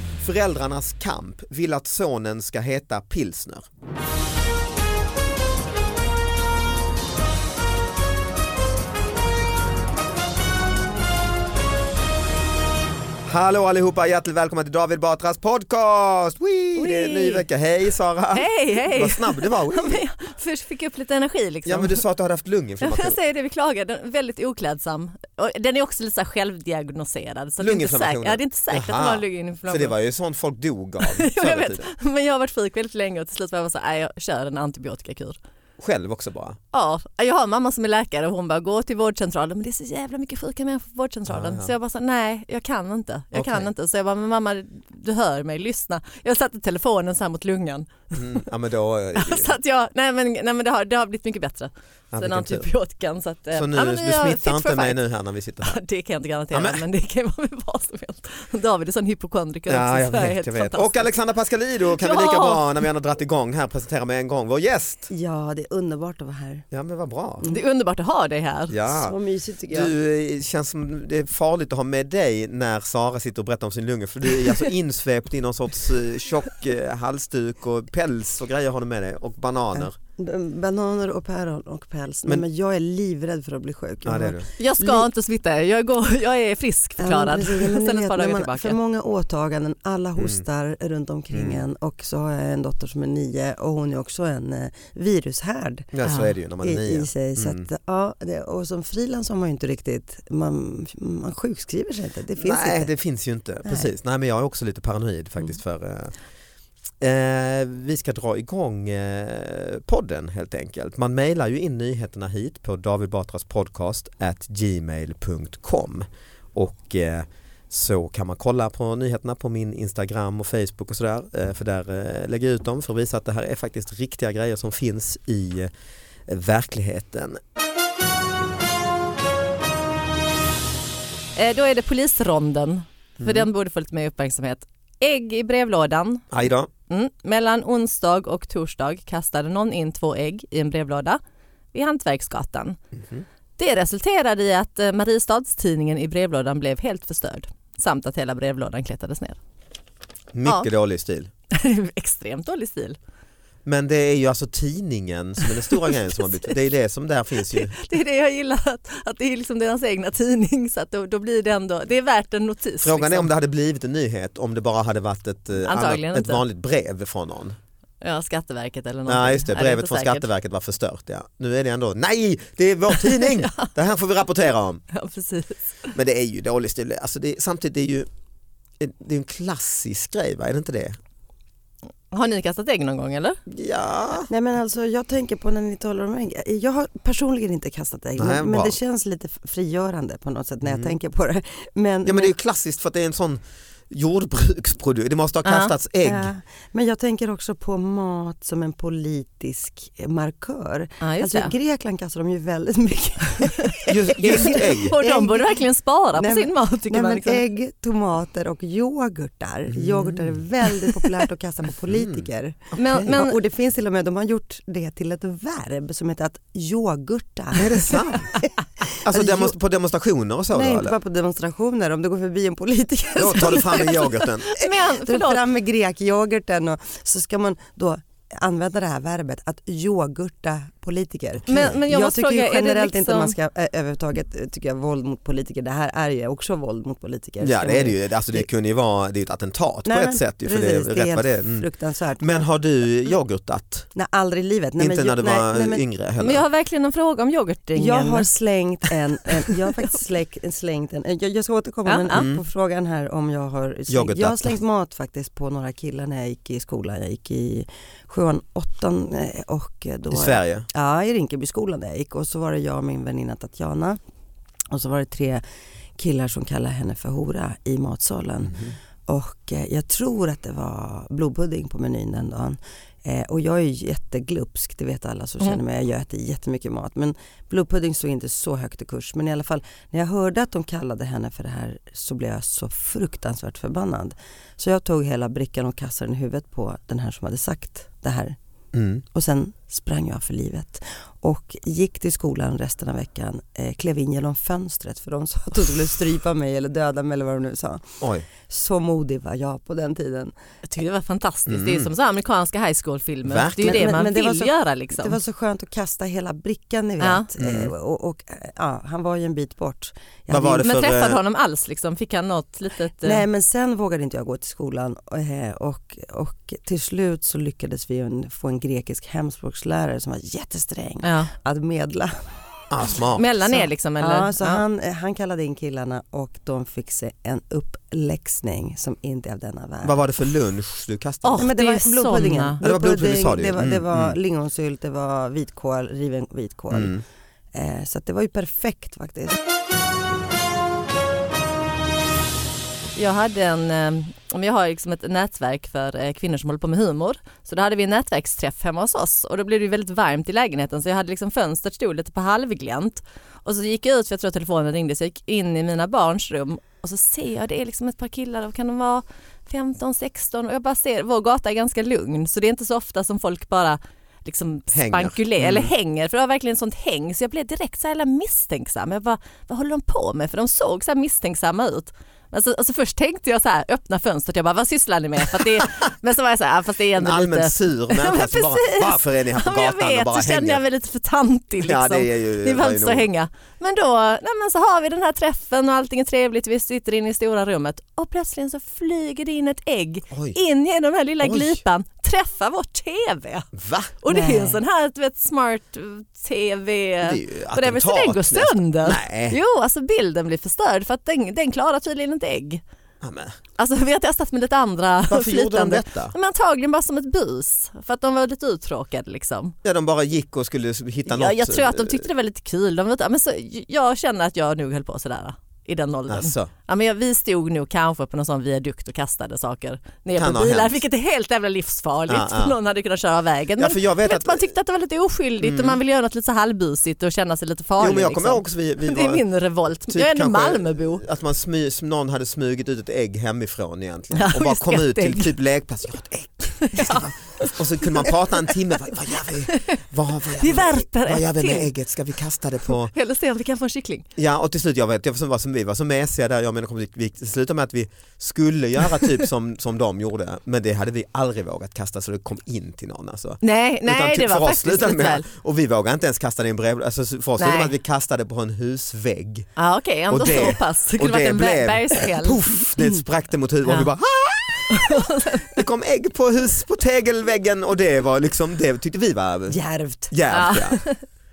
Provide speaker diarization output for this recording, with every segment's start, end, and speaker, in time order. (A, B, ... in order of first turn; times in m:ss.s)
0:00.2-0:03.6 A
0:13.3-0:20.0 A
0:16.8-0:17.4 B
0:18.3-0:22.0 B
0:21.7-0:23.2 A
0:22.8-0:30.0 B
0:27.6-0:31.8 A
0:31.0-0:35.4 B
0:35.8-0:36.6 A
0:36.7-0:48.2 B
0:41.3-0:41.7 A
0:43.3-0:43.7 A
0:48.1-0:49.6 A
0:49.2-0:55.0 B
0:52.1-0:52.7 A
0:53.5-0:55.8 A
0:55.6-1:01.1 B
0:56.5-0:56.8 A
0:59.7-1:05.1 A
1:01.9-1:02.8 B
1:05.1-1:06.7 C
1:06.7-1:07.4 A
1:07.5-1:08.8 B
1:08.7-1:09.2 A
1:09.0-1:09.9 C
1:09.7-1:20.0 A
1:19.8-1:25.1 C
1:24.0-1:24.5 A
1:24.6-1:28.8 B
1:27.0-1:35.9 C
1:30.2-1:30.4 A
1:31.3-1:31.6 A
1:35.9-1:37.7 A
1:36.0-1:36.3 B
1:36.6-1:42.9 C
1:42.4-1:46.1 A
1:43.6-1:43.9 C
1:47.0-2:05.7 A
2:06.3-2:07.4 A
2:11.4-2:16.3 B
2:13.2-2:13.5 A
2:16.3-2:16.7 A
2:16.9-2:21.2 B
2:21.7-2:22.8 B
2:23.0-2:23.2 A
2:23.6-2:29.4 B
2:30.3-2:31.3 A
2:31.5-2:33.0 B
2:33.6-2:37.8 A
2:37.5-2:43.3 B
2:42.8-2:47.6 A
2:45.6-2:46.4 B
2:48.0-2:50.2 B
2:49.1-2:54.8 A
2:53.0-2:53.7 B
2:54.9-2:55.9 B
2:55.9-2:58.1 A
2:58.8-3:01.0 A
3:02.1-3:03.4 B
3:03.5-3:04.3 A
3:04.3-3:12.3 C
3:08.2-3:08.8 A
3:10.6-3:10.9 A
3:12.0-3:16.3 A
3:15.4-3:15.7 B
3:16.0-3:25.6 C
3:21.0-3:21.5 B
3:23.9-3:25.0 A
3:24.2-3:27.4 B
3:26.2-3:39.6 C
3:29.7-3:30.4 A
3:31.9-3:32.3 A
3:32.8-3:33.4 B
3:37.5-3:38.4 A
3:39.0-3:41.0 A
3:40.5-3:58.4 C
3:43.2-3:44.5 A
3:44.5-3:45.4 B
3:51.5-3:53.4 B
3:57.4-4:01.7 A
3:59.8-4:02.5 C
4:02.2-4:03.9 A
4:04.0-4:05.8 C
4:04.8-4:06.4 A
4:06.2-4:08.3 B
4:07.8-4:24.0 C
4:11.9-4:12.3 B
4:12.1-4:12.4 A
4:13.9-4:14.6 A
4:20.1-4:20.7 A
4:24.7-4:25.4 C
4:26.0-4:48.4 C
4:28.5-4:28.7 A
4:48.7-4:49.0 A
4:49.1-5:00.3 C
4:58.0-4:58.3 A
5:00.7-5:05.2 B
5:01.5-5:01.9 A
5:03.2-5:03.9 A
5:03.6-5:10.7 C
5:07.0-5:07.3 B
5:07.4-5:07.7 A
5:10.3-5:11.2 A
5:10.6-5:13.2 B
5:13.0-5:22.2 C
5:21.0-5:21.3 B
5:22.7-5:23.3 A
5:23.1-5:24.6 B
5:23.5-5:30.0 C
5:29.8-5:31.5 A
5:31.2-5:32.6 B
5:31.4-5:37.0 C
5:32.6-5:34.2 A
5:36.7-5:37.0 A
5:37.5-5:39.4 C
5:43.0-6:33.5 B
6:04.7-6:05.7 A
6:17.0-6:20.6 A
6:21.6-6:23.1 A
6:31.2-6:31.6 A
6:33.6-6:33.9 A
6:34.0-6:42.6 B
6:34.1-6:34.6 C
6:37.0-6:39.4 A
6:43.0-6:43.4 A
6:43.6-6:49.6 B
6:45.1-6:46.1 A
6:49.6-6:52.1 A
6:51.1-7:11.0 B
6:56.1-6:56.5 A
7:00.2-7:00.8 A
7:02.1-7:02.6 A
7:03.6-7:04.5 A
7:05.4-7:05.8 A
7:07.8-7:09.2 A
7:09.9-7:22.9 A
7:14.1-7:15.3 B
7:16.6-7:18.1 B
7:19.5-7:21.7 B
7:22.8-7:24.1 B
7:24.2-7:39.5 A
7:33.4-7:35.2 B
7:37.4-7:37.7 B
7:39.6-7:42.4 B
7:40.1-7:49.6 A
7:44.7-7:45.6 B
7:49.5-7:50.1 C
7:50.1-7:50.8 A
7:50.3-7:51.0 B